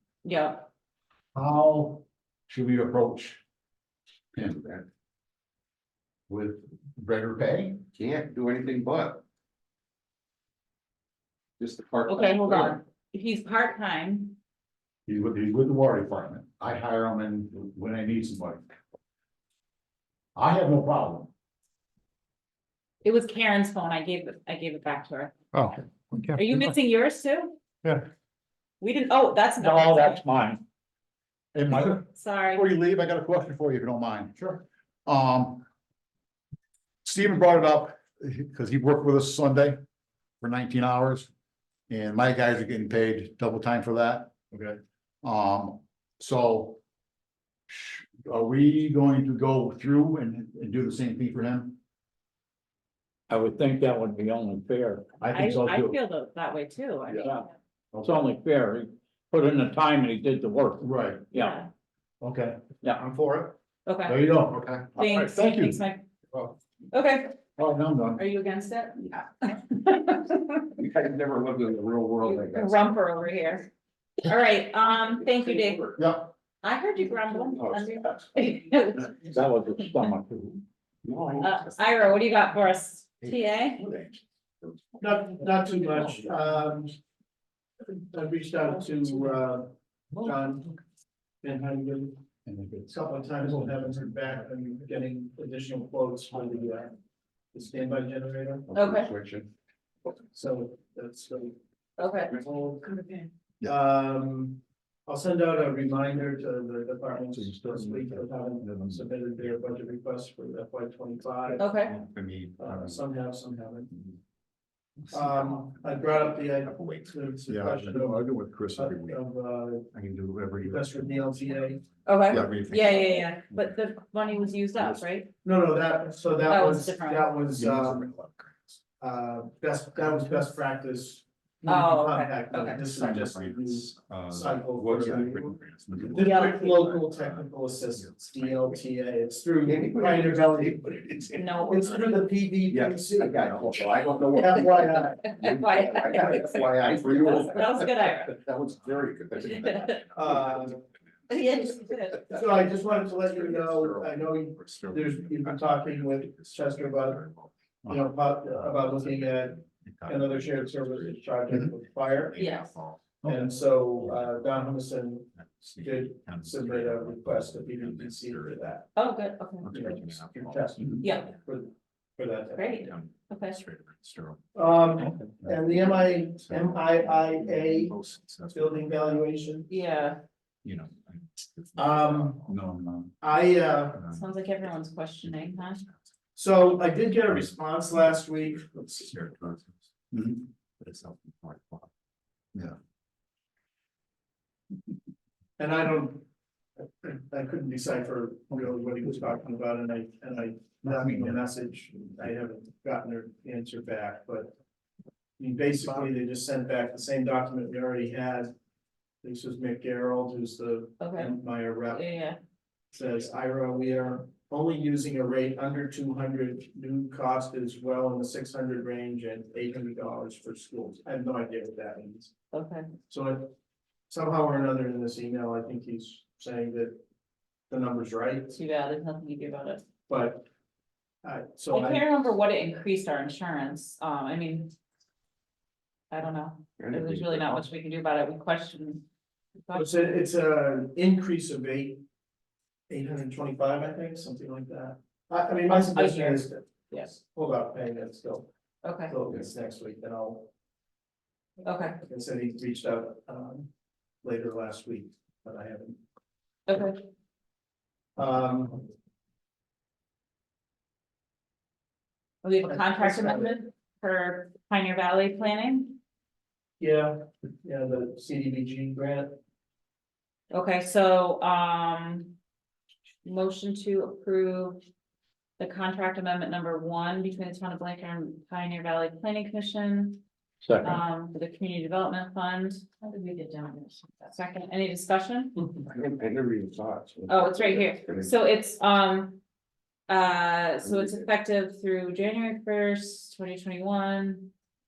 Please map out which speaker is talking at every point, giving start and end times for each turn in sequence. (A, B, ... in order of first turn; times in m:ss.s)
0:00.2-0:00.6 A
0:01.3-0:03.4 B
0:04.3-0:04.7 B
0:06.3-0:07.8 B
0:08.0-0:09.2 C
0:11.6-0:12.8 C
0:12.0-0:14.4 A
0:15.1-0:18.8 B
0:20.4-0:21.3 B
0:23.0-0:25.4 A
0:25.5-0:26.7 B
0:26.3-0:27.6 A
0:28.8-0:30.2 A
0:29.6-0:30.6 D
0:31.5-0:35.6 B
0:32.1-0:32.6 A
0:37.0-0:39.8 B
0:40.4-0:41.3 B
0:41.9-0:44.7 B
0:45.2-0:46.8 B
0:47.7-0:51.8 B
0:53.3-0:55.2 D
0:55.2-0:56.0 B
0:55.2-0:57.5 A
0:57.2-0:57.5 D
0:57.9-0:58.2 B
0:58.0-1:01.6 D
1:00.8-1:01.3 B
1:01.3-1:01.7 A
1:02.2-1:03.5 B
1:03.8-1:04.2 A
1:04.0-1:05.8 B
1:05.0-1:06.0 A
1:06.3-1:06.6 B
1:06.9-1:07.3 A
1:07.6-1:08.2 B
1:08.2-1:10.6 A
1:10.8-1:13.0 C
1:12.2-1:13.7 A
1:14.2-1:15.9 A
1:15.2-1:15.9 C
1:16.0-1:16.3 B
1:16.6-1:19.4 A
1:17.5-1:18.2 C
1:19.2-1:20.6 D
1:21.0-1:22.1 C
1:21.4-1:23.8 A
1:23.2-1:25.1 C
1:25.0-1:27.0 E
1:27.9-1:30.7 E
1:31.4-1:32.2 E
1:32.4-1:34.4 B
1:32.9-1:36.9 E
1:37.5-1:38.7 E
1:38.7-1:39.5 C
1:38.7-1:39.1 A
1:40.2-1:41.6 E
1:42.0-1:43.2 A
1:42.3-1:42.8 E
1:43.6-1:51.9 E
1:47.3-1:49.0 B
1:51.6-1:52.0 A
1:51.6-1:53.1 C
1:52.6-1:53.9 E
1:55.1-1:58.2 E
1:55.1-1:57.5 C
1:57.5-1:59.2 B
1:58.7-1:59.9 E
1:59.9-2:01.0 B
2:00.6-2:01.8 E
2:01.4-2:03.4 C
2:02.0-2:05.3 A
2:02.3-2:02.7 B
2:05.4-2:08.1 E
2:06.4-2:07.4 A
2:07.6-2:08.4 B
2:09.0-2:15.6 E
2:11.6-2:12.8 A
2:12.5-2:18.8 C
2:15.9-2:16.2 B
2:16.1-2:21.0 E
2:16.2-2:16.8 A
2:19.6-2:22.1 C
2:21.3-2:22.1 A
2:21.6-2:25.4 E
2:22.7-2:37.5 C
2:25.1-2:28.3 A
2:26.0-2:26.3 E
2:29.4-2:30.0 A
2:30.1-2:30.8 E
2:31.3-2:32.4 A
2:32.1-2:37.2 E
2:37.8-2:42.5 E
2:38.5-2:41.4 C
2:42.0-2:43.4 C
2:42.4-2:42.8 A
2:43.2-2:48.8 E
2:44.0-2:44.7 C
2:45.3-2:48.8 C
2:49.0-2:49.7 A
2:49.6-2:51.4 C
2:49.7-2:52.8 E
2:51.0-2:51.3 A
2:52.5-2:53.6 A
2:52.8-2:59.4 C
2:54.5-2:59.7 E
2:55.0-2:55.6 B
2:59.7-3:00.2 A
3:00.6-3:02.6 C
3:01.8-3:02.4 E
3:02.4-3:03.2 B
3:03.2-3:04.0 E
3:03.9-3:04.3 C
3:04.1-3:05.8 A
3:05.3-3:05.9 C
3:06.4-3:09.1 E
3:07.1-3:09.9 C
3:10.1-3:10.5 B
3:10.8-3:11.9 C
3:15.6-3:16.2 E
3:16.8-3:24.5 E
3:20.8-3:21.4 B
3:25.4-3:28.5 E
3:29.2-3:32.0 E
3:31.0-3:31.3 A
3:31.9-3:32.4 A
3:32.9-3:42.3 E
3:42.5-3:42.9 A
3:43.1-3:43.5 E
3:44.1-3:47.0 E
3:47.7-3:48.6 E
3:48.5-3:49.8 A
3:50.1-3:50.5 E
3:51.2-3:52.1 E
3:51.7-3:54.7 A
3:56.1-3:59.0 A
3:56.8-3:57.6 C
3:59.7-3:59.9 A
3:59.7-4:02.0 E
4:02.9-4:08.5 E
4:05.6-4:07.1 A
4:08.8-4:09.2 A
4:09.1-4:10.5 E
4:11.6-4:12.0 A
4:12.0-4:13.7 E
4:14.2-4:16.0 E
4:16.7-4:17.0 A
4:18.2-4:18.9 E
4:22.4-4:26.0 A
4:22.7-4:23.5 E
4:26.8-4:29.4 E
4:30.5-4:32.4 A
4:33.2-4:34.8 A
4:35.6-4:40.2 A
4:40.6-4:40.9 B
4:40.8-4:45.6 A
4:45.8-4:48.3 C
4:47.3-4:49.4 A
4:50.1-4:54.5 A
4:50.8-4:51.2 C